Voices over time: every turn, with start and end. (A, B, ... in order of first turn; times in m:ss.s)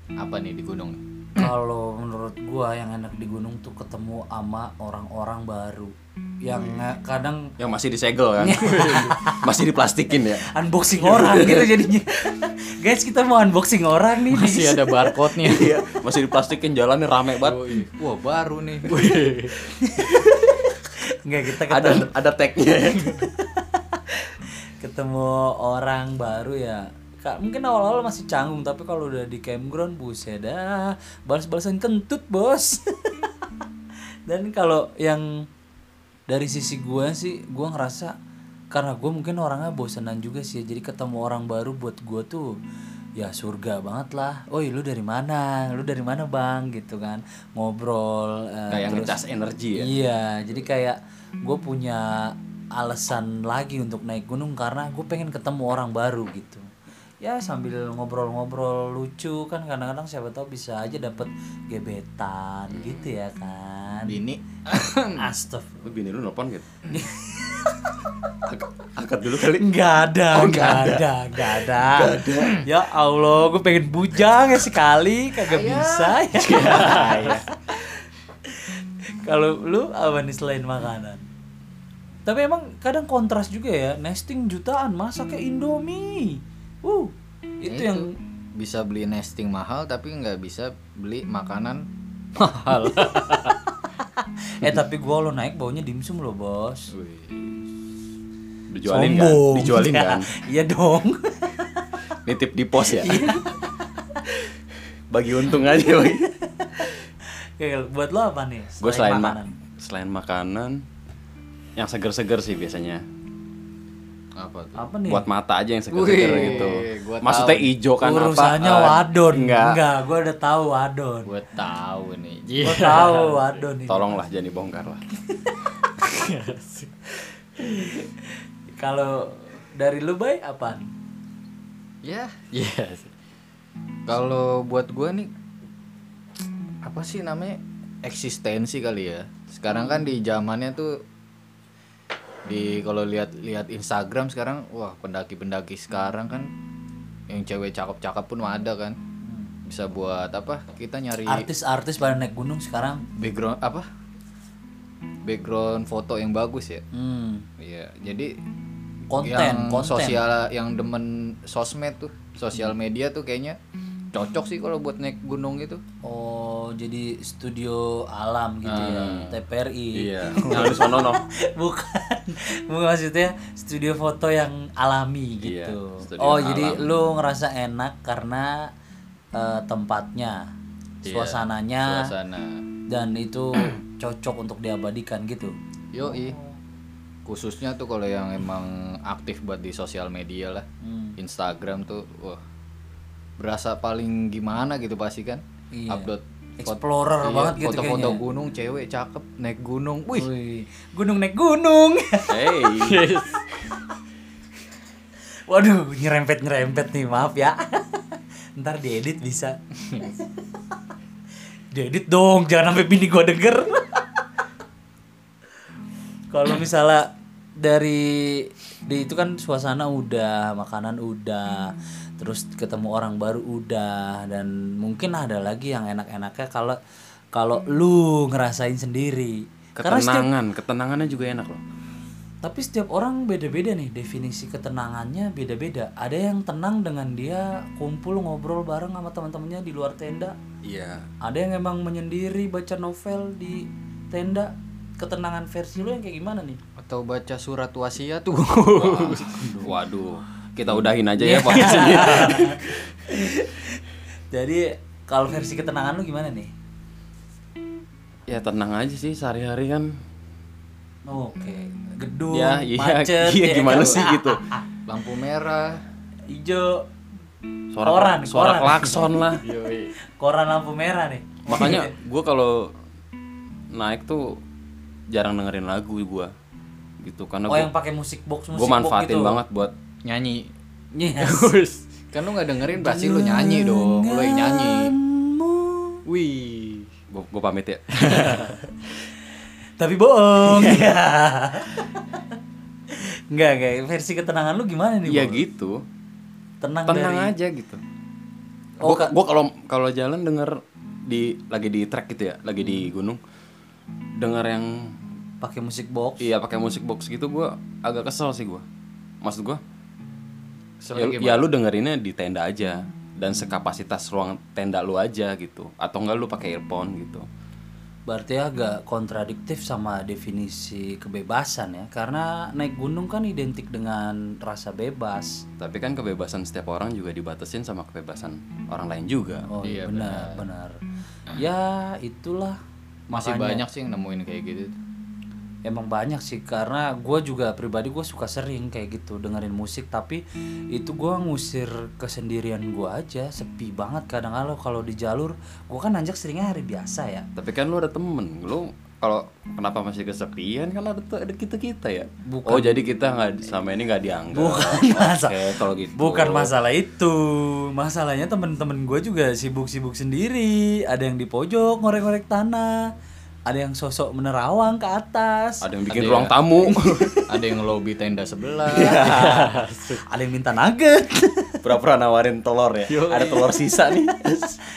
0:00.2-0:01.5 A
0:01.4-0:07.5 B
0:07.6-0:11.7 C
0:08.4-0:09.5 B
0:08.6-0:09.2 A
0:10.4-0:15.3 B
0:14.3-0:15.8 A
0:15.4-0:17.8 C
0:17.4-0:19.6 A
0:19.8-0:22.1 B
0:21.6-0:23.2 C
0:23.1-0:33.3 B
0:34.3-0:35.4 B
0:36.3-0:38.1 B
0:38.7-0:42.5 B
0:43.2-0:49.2 B
0:48.7-0:49.9 C
0:49.7-0:56.7 B
0:57.2-1:04.2 B
1:02.7-1:03.1 C
1:04.1-1:05.2 A
1:04.8-1:05.8 B
1:05.8-1:06.8 C
1:06.9-1:08.0 B
1:08.4-1:09.7 C
1:09.5-1:17.9 B
1:10.3-1:12.6 C
1:15.5-1:17.4 A
1:16.4-1:17.4 C
1:18.4-1:21.2 B
1:22.2-1:28.1 B
1:27.7-1:33.6 A
1:34.2-1:36.9 B
1:36.9-1:37.6 A
1:38.7-1:40.3 C
1:38.8-1:41.9 B
1:42.2-1:43.3 C
1:42.9-1:44.2 B
1:45.1-1:46.3 C
1:46.6-1:46.9 B
1:47.6-1:49.6 B
1:48.8-1:50.8 C
1:51.8-1:53.0 C
1:54.4-1:54.8 A
1:54.8-1:55.2 B
1:55.1-1:59.8 C
1:55.9-1:57.7 A
1:58.0-2:01.3 B
2:01.2-2:03.5 A
2:02.6-2:04.1 B
2:03.9-2:05.0 C
2:05.3-2:05.7 B
2:06.0-2:06.9 A
2:07.6-2:10.9 B
2:12.0-2:13.1 A
2:14.1-2:15.3 A
2:16.8-2:21.0 A
2:22.4-2:26.5 A
2:27.3-2:29.0 A
2:29.6-2:31.5 A
2:31.2-2:33.0 B
2:33.2-2:33.8 A
2:35.2-2:36.8 A
2:36.9-2:37.4 B
2:37.6-2:38.3 A
2:39.1-2:40.2 B
2:39.2-2:43.6 A
2:44.1-2:45.8 A
2:46.0-2:58.7 B
2:48.7-2:49.3 A
2:48.7-2:49.4 C
2:49.9-2:51.2 C
2:50.5-2:50.8 A
2:55.4-2:56.9 C
2:59.3-3:00.5 B
3:01.0-3:02.6 A
3:01.0-3:02.1 B
3:02.9-3:05.5 B
3:05.9-3:06.4 A
3:07.2-3:10.6 A
3:10.8-3:11.2 B
3:11.2-3:12.4 A
3:13.4-3:20.3 A
3:15.7-3:18.2 B
3:20.1-3:22.7 B
3:22.3-3:23.2 C
3:22.7-3:23.5 A
3:25.5-3:30.2 B
3:31.7-3:34.0 B
3:36.3-3:46.8 B
3:47.3-3:50.3 B
3:49.8-3:51.6 C
3:52.4-4:00.4 B
4:00.6-4:01.0 C
4:01.2-4:06.6 B
4:06.8-4:09.5 A
4:08.8-4:12.6 C
4:09.1-4:09.7 B
4:11.2-4:16.5 B
4:11.7-4:12.4 A
4:18.3-4:20.0 C
4:21.1-4:24.6 B
4:22.3-4:24.4 C
4:24.9-4:25.8 A
4:26.3-4:26.8 B
4:27.7-4:29.4 C
4:27.8-4:29.2 B
4:29.3-4:29.9 A
4:30.0-4:31.9 B
4:31.5-4:32.7 C
4:33.7-4:34.4 C
4:35.1-4:36.3 C
4:37.0-4:37.7 C
4:37.5-4:39.4 B
4:38.5-4:39.7 C
4:40.0-4:40.5 A
4:40.9-4:41.6 B
4:41.2-4:44.9 A
4:42.7-4:46.0 B
4:46.0-4:46.9 A
4:47.1-4:48.5 C
4:48.0-4:48.6 A
4:49.8-4:52.2 B
4:52.9-4:55.4 B
4:55.0-4:55.8 C
4:56.6-4:57.3 B
4:56.8-4:57.8 C
4:58.8-4:59.1 B
4:58.8-5:03.2 C
5:04.2-5:05.0 C
5:05.4-5:06.3 B
5:06.2-5:08.6 C
5:09.2-5:09.6 C
5:10.8-5:11.4 A
5:10.9-5:17.3 C
5:18.1-5:25.4 B
5:25.6-5:29.5 C
5:29.5-5:30.8 B
5:29.6-5:30.4 A
5:31.3-5:32.6 B
5:33.1-5:33.6 B
5:33.1-5:34.8 A
5:35.6-5:40.2 B
5:40.7-5:47.3 B
5:47.4-5:56.5 C
5:52.2-5:52.8 B
5:54.3-6:02.9 B
6:03.5-6:05.7 B
6:05.6-6:07.1 C
6:05.9-6:06.3 A
6:06.6-6:07.3 B
6:07.3-6:10.0 A
6:08.7-6:09.6 C
6:08.9-6:09.4 B
6:09.9-6:11.6 B
6:11.6-6:14.6 C
6:12.9-6:13.5 A